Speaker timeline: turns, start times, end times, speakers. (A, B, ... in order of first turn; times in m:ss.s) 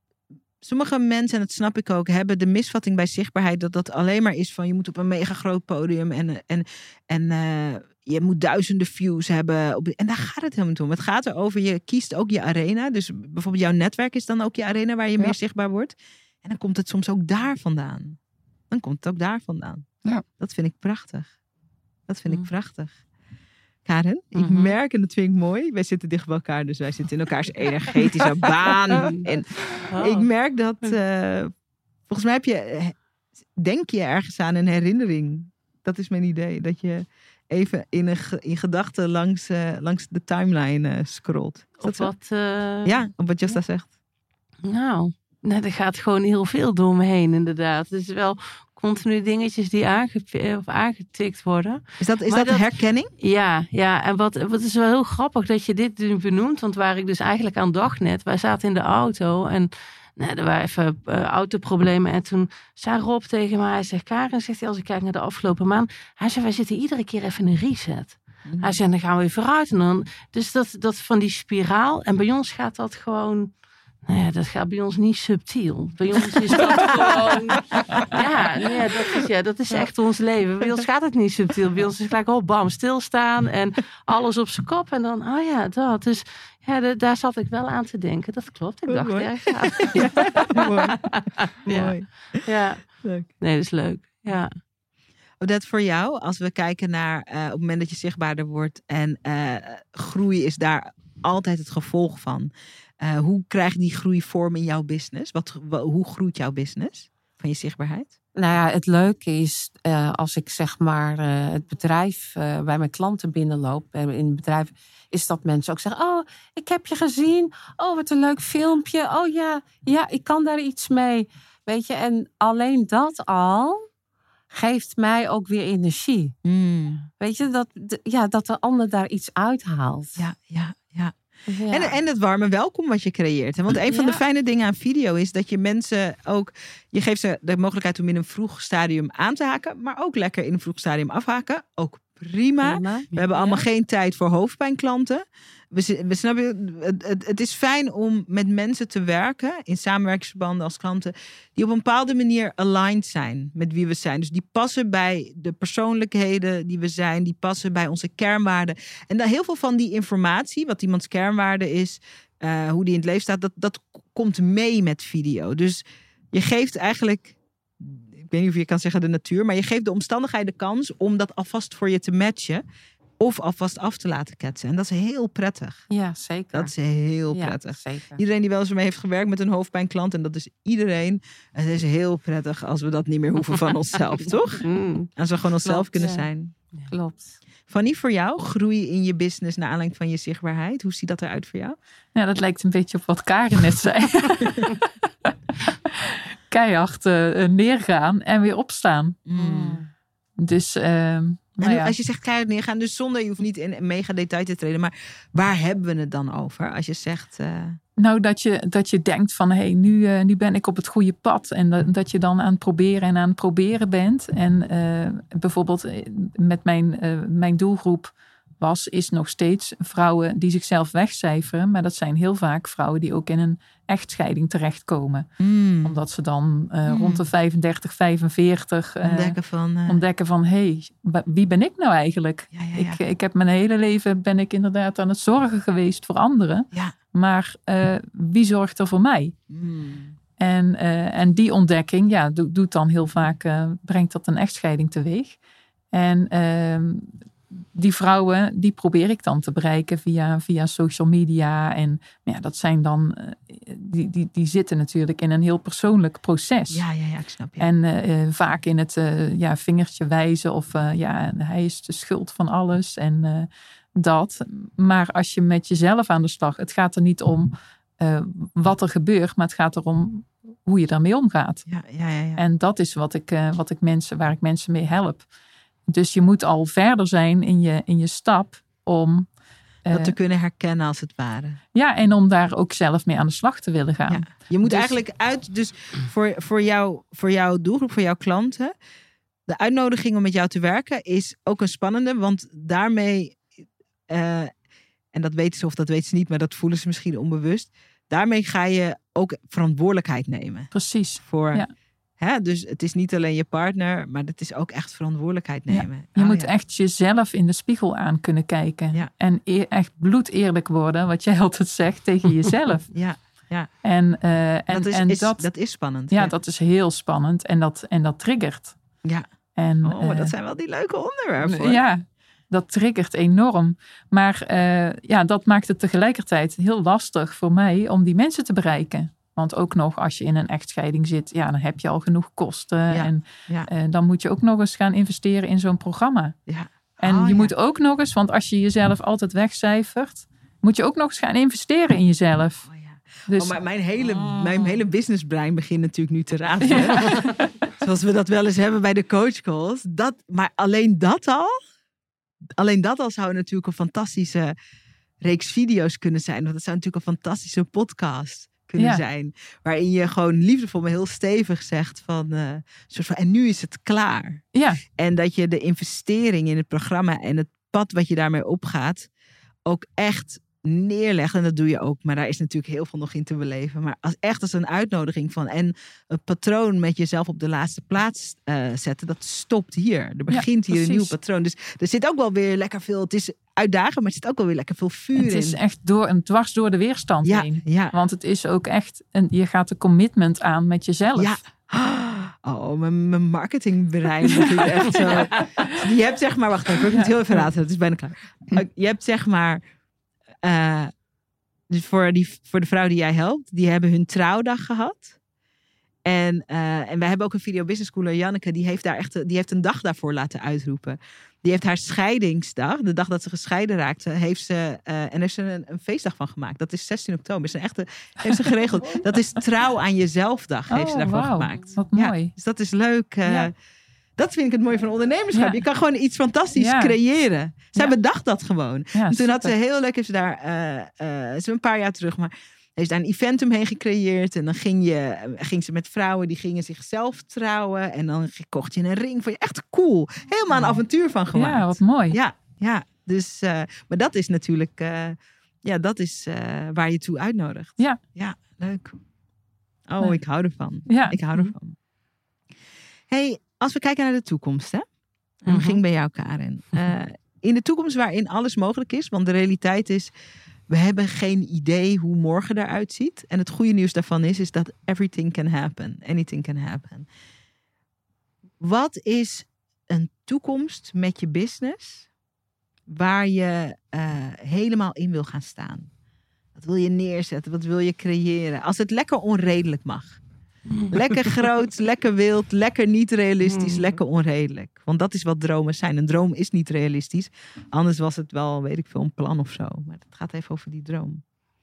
0:00.6-0:18.2 A
0:18.7-0:19.9 A
0:20.4-0:21.3 A
0:22.1-0:22.9 A
0:23.9-0:31.5 A
0:29.9-0:30.3 B
0:32.1-0:33.0 A
0:33.6-0:42.1 A
0:41.8-0:43.0 B
0:42.8-0:43.9 A
0:44.6-0:52.7 B
0:52.0-0:53.1 A
0:53.2-1:34.6 B
1:08.5-1:08.8 A
1:28.9-1:31.1 A
1:31.7-1:32.5 A
1:33.0-1:33.3 A
1:35.4-1:42.5 A
1:43.0-1:48.1 A
1:48.4-2:03.9 C
2:04.5-2:06.3 C
2:06.4-2:07.1 A
2:07.2-2:10.2 C
2:10.2-2:11.2 A
2:11.5-2:12.0 C
2:11.7-2:52.6 A
2:13.9-2:14.2 C
2:22.6-2:23.6 C
2:53.2-2:55.8 A
2:55.9-2:56.7 C
2:56.5-3:06.5 A
2:57.3-2:58.2 C
3:04.7-3:05.1 B
3:05.6-3:06.3 C
3:06.9-3:07.4 C
3:07.7-3:11.8 A
3:12.1-3:14.7 D
3:16.1-3:19.2 D
3:19.3-3:19.8 A
3:19.4-3:19.9 C
3:20.4-3:22.0 D
3:21.6-3:27.8 A
3:28.0-3:45.3 D
3:45.4-3:46.0 A
3:45.8-3:49.4 D
3:46.9-3:47.3 A
3:49.0-3:50.0 A
3:49.9-3:59.4 D
3:52.5-3:53.0 A
3:59.5-4:00.2 A
4:00.4-4:05.4 D
4:05.9-4:16.8 D
4:16.7-4:17.7 A
4:17.6-4:31.6 D
4:31.7-4:32.4 A
4:32.4-4:35.3 D
4:35.9-4:39.3 D
4:39.9-4:40.1 D
4:39.9-4:41.6 A
4:41.8-4:45.0 D
4:44.1-4:48.7 A
4:49.5-4:53.5 A
4:54.1-4:54.5 A
4:55.1-5:01.6 A
5:00.7-5:01.7 D
5:02.2-5:06.5 A
5:05.7-5:12.9 D
5:12.9-5:13.7 A
5:13.8-5:15.4 D
5:14.7-5:16.3 A
5:16.1-5:18.8 D
5:19.6-5:20.3 D
5:19.8-5:21.8 A
5:21.4-5:36.4 D
5:32.9-5:33.7 A
5:36.5-5:37.5 A
5:37.0-5:42.7 D
5:42.7-5:51.6 A
5:43.3-5:43.6 D
5:46.7-5:47.4 D
5:52.6-5:54.5 A
5:55.2-6:09.1 A
6:04.5-6:04.8 D
6:09.7-6:25.6 A
6:20.3-6:21.1 D
6:25.2-6:31.4 D
6:27.2-6:27.9 A
6:31.2-6:39.6 A
6:36.8-6:37.1 D
6:40.4-6:40.9 A
6:41.7-6:45.2 A
6:46.0-7:03.5 A
7:00.7-7:02.3 D
7:03.3-7:03.5 D
7:04.2-7:29.0 A
7:05.3-7:05.6 D
7:06.6-7:07.0 D
7:09.0-7:09.5 D
7:20.5-7:20.8 D
7:21.3-7:22.2 D
7:29.9-7:31.8 A
7:30.9-7:31.2 D
7:33.1-7:34.9 A
7:35.4-7:40.1 A
7:40.7-7:47.1 A
7:48.6-7:52.1 A
7:52.9-7:55.9 A
7:56.6-8:00.2 A
8:00.7-8:01.2 B
8:00.9-8:11.2 A
8:03.4-8:03.9 B